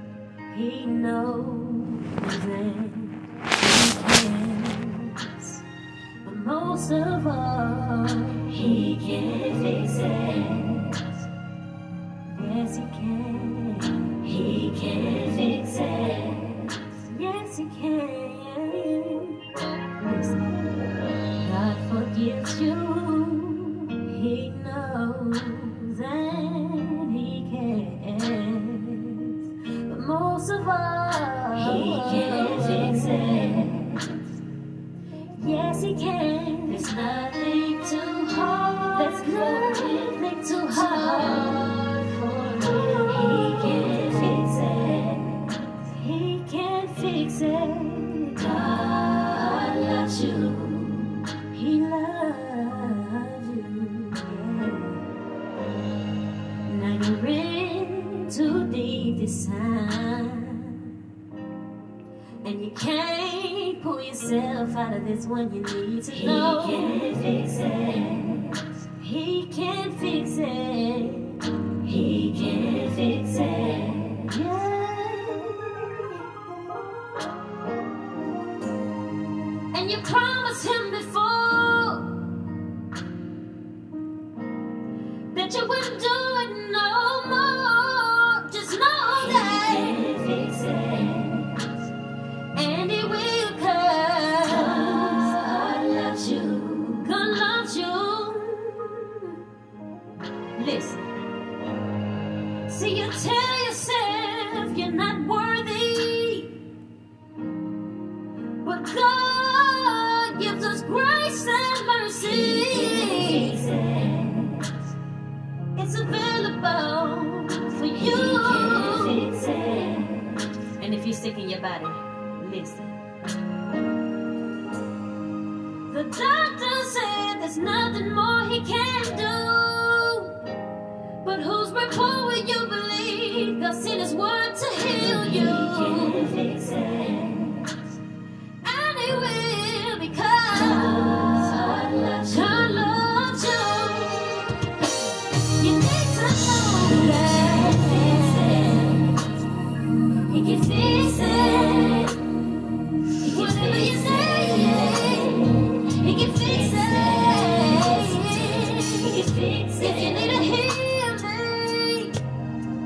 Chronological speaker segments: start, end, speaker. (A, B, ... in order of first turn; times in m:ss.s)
0:00.5-0:05.6 A
0:06.2-0:11.2 A
0:12.3-0:20.8 A
0:21.3-0:34.3 A
0:35.4-0:55.2 A
0:56.6-1:01.0 A
1:02.4-1:16.8 A
1:19.7-1:22.4 A
1:25.3-1:31.9 A
1:32.5-1:39.4 A
1:40.6-1:41.1 A
1:42.6-1:46.6 A
1:48.6-1:54.8 A
1:55.8-2:03.0 A
2:05.9-2:10.5 A
2:11.2-2:17.9 A
2:18.6-2:29.2 A
2:30.3-2:32.4 A
2:33.1-2:42.2 A